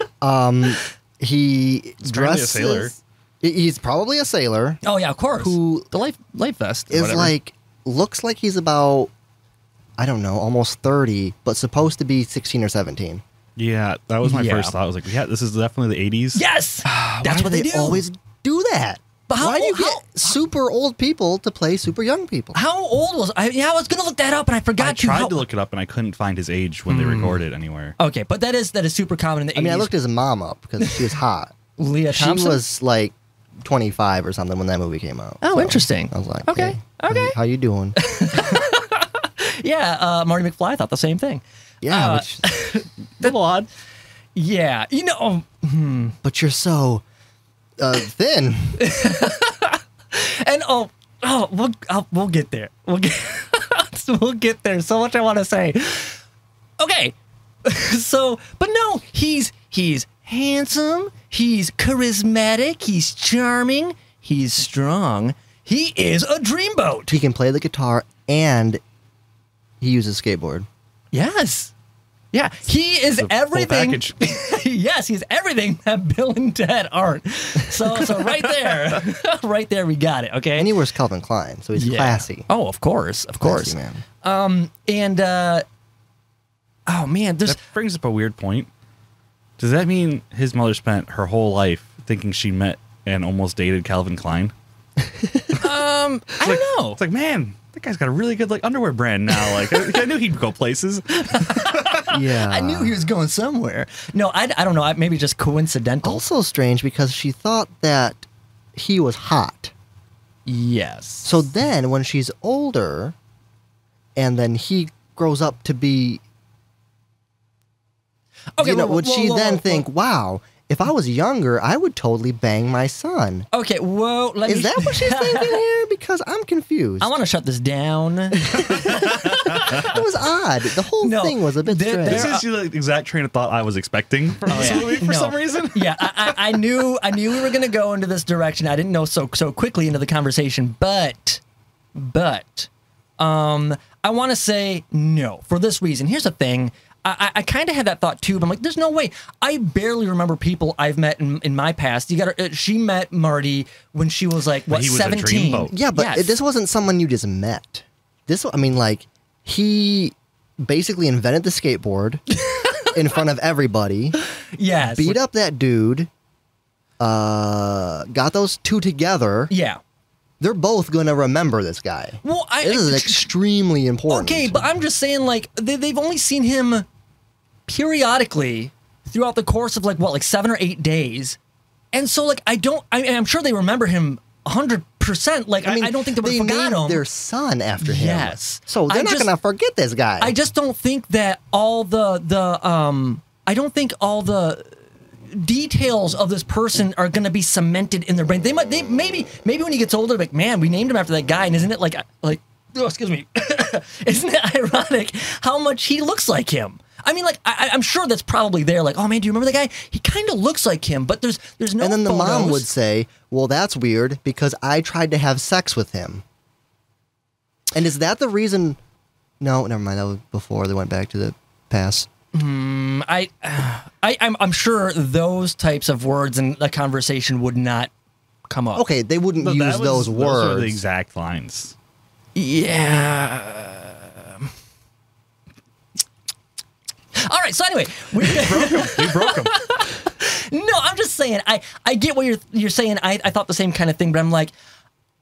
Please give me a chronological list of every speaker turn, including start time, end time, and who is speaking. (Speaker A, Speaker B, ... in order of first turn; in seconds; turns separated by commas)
Speaker A: 0.2-4.8, Speaker B: 2.0-3.0, Speaker C: 4.8-7.3, Speaker A: 5.4-5.9, Speaker A: 6.9-9.1, Speaker A: 10.0-13.2, Speaker B: 13.6-16.4, Speaker C: 14.2-14.8, Speaker C: 16.3-18.0, Speaker A: 16.9-22.6, Speaker C: 19.3-20.3, Speaker C: 22.5-25.5, Speaker B: 24.8-28.0, Speaker C: 26.9-27.4, Speaker C: 28.0-29.9, Speaker A: 29.6-31.6, Speaker C: 31.8-32.6, Speaker A: 32.1-38.7, Speaker C: 35.4-37.4, Speaker C: 38.0-43.4, Speaker A: 41.8-42.5, Speaker B: 43.2-43.7, Speaker C: 44.4-46.2, Speaker A: 46.2-47.0, Speaker A: 47.8-48.8, Speaker C: 48.8-56.2, Speaker C: 56.8-67.2, Speaker A: 67.1-68.8, Speaker A: 69.8-70.7, Speaker C: 71.1-71.7, Speaker C: 72.3-80.8, Speaker B: 73.2-74.2, Speaker A: 80.6-82.5, Speaker C: 81.8-85.7, Speaker A: 83.4-84.0, Speaker C: 86.9-87.6, Speaker B: 87.5-88.7, Speaker B: 89.6-94.5, Speaker C: 95.6-97.0, Speaker B: 96.4-102.0, Speaker C: 101.2-106.2, Speaker A: 102.1-103.0, Speaker A: 106.0-109.7, Speaker C: 110.5-111.4, Speaker A: 111.2-113.2, Speaker A: 114.2-116.2, Speaker C: 118.6-119.9, Speaker A: 118.6-123.5, Speaker C: 123.5-125.6, Speaker A: 124.5-127.1, Speaker C: 127.0-129.9, Speaker A: 128.5-132.3, Speaker B: 129.3-129.6, Speaker C: 131.0-132.4, Speaker B: 132.1-136.6, Speaker C: 134.5-141.4, Speaker C: 141.9-156.4, Speaker B: 154.7-155.7, Speaker A: 155.7-162.2, Speaker C: 162.3-162.9, Speaker A: 162.9-164.2, Speaker C: 164.4-165.2, Speaker A: 164.9-166.1, Speaker A: 167.0-169.5, Speaker C: 169.5-169.8, Speaker A: 170.4-174.6, Speaker C: 172.2-173.3, Speaker C: 174.1-176.8, Speaker C: 177.7-181.4, Speaker C: 181.9-187.1, Speaker A: 185.6-190.3, Speaker C: 187.8-189.3, Speaker C: 190.2-194.8, Speaker C: 195.3-212.7, Speaker A: 211.8-216.2, Speaker A: 217.7-218.8, Speaker A: 219.4-222.1, Speaker C: 222.3-227.9, Speaker C: 228.5-228.9, Speaker A: 228.8-230.8, Speaker B: 229.4-231.7, Speaker C: 232.3-234.4, Speaker C: 237.2-244.5, Speaker B: 238.2-239.6